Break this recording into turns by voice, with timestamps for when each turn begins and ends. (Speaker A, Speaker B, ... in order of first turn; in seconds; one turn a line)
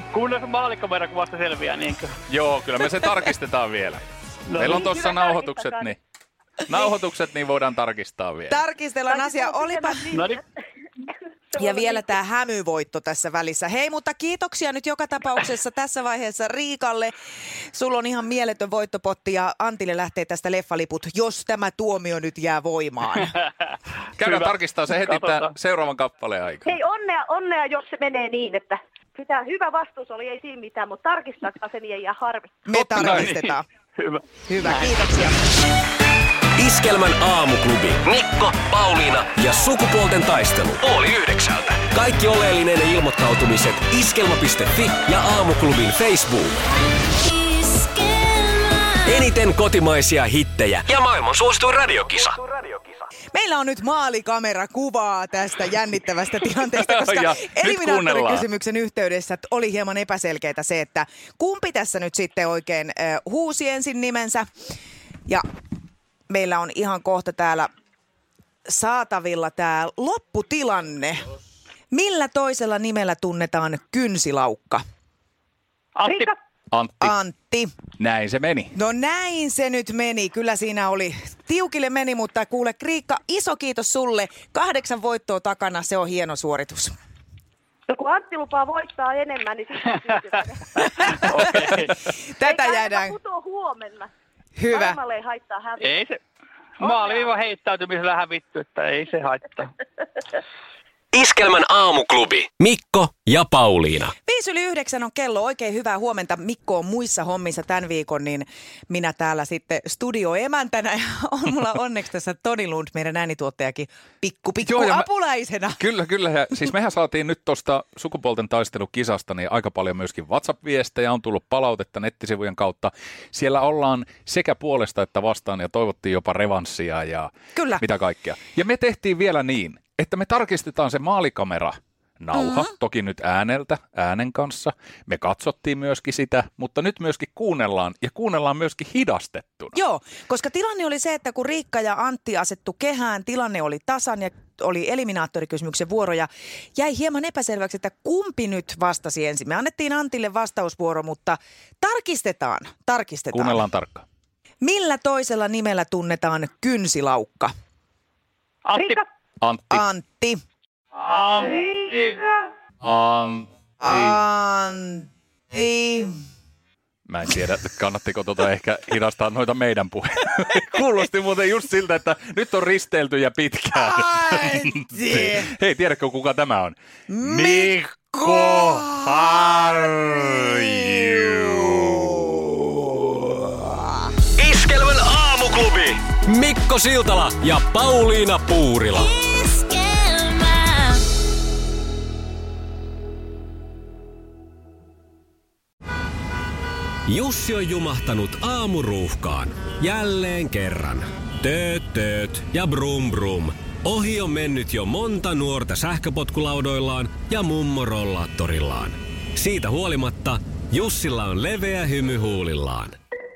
Speaker A: 0.1-2.2
Speaker B: 2.3-4.0
Speaker A: 4.5-4.9
Speaker B: 4.6-6.0
Speaker C: 4.6-5.9
Speaker B: 6.6-8.6
Speaker D: 8.5-10.1
Speaker C: 9.1-10.4
Speaker A: 10.1-10.4
Speaker C: 11.5-12.1
Speaker D: 11.6-17.1
Speaker D: 17.7-23.4
Speaker B: 24.2-26.7
Speaker A: 24.2-25.5
Speaker C: 26.6-32.5
Speaker D: 32.6-33.6
Speaker A: 32.7-35.2
Speaker B: 32.9-33.3
Speaker D: 34.5-35.4
Speaker E: 36.5-46.6
Speaker E: 49.1-52.7
Speaker D: 53.3-64.5
Speaker B: 56.8-58.5
Speaker D: 66.3-67.7
Speaker D: 68.7-71.3
Speaker D: 71.9-74.8
Speaker A: 75.9-76.3
Speaker C: 76.1-76.3
Speaker B: 76.7-77.1
Speaker D: 77.0-77.7
Speaker B: 78.0-78.8
Speaker D: 78.7-86.9
Speaker C: 87.9-91.0
Speaker A: 91.2-91.9
Speaker D: 92.4-93.2
Speaker C: 92.4-94.1
Speaker D: 94.6-95.0
Speaker C: 94.7-95.9
Speaker A: 95.8-96.2
Speaker A: 96.8-99.7
Speaker C: 96.8-97.3
Speaker E: 101.1-104.1
Speaker D: 104.2-115.8
Speaker B: 114.6-115.1
Speaker B: 115.8-139.8
Speaker D: 127.5-127.8
Speaker D: 132.3-132.7
Speaker D: 139.8-153.7
Speaker B: 153.3-154.1
Speaker D: 154.6-157.5
Speaker A: 158.6-159.1
Speaker B: 159.4-159.8
Speaker D: 159.7-160.4
Speaker A: 160.9-162.2
Speaker B: 162.8-164.2
Speaker D: 163.8-166.1
Speaker B: 167.1-182.2
Speaker D: 173.8-175.5
Speaker D: 177.1-184.1
Speaker E: 184.4-189.1
Speaker E: 197.1-213.0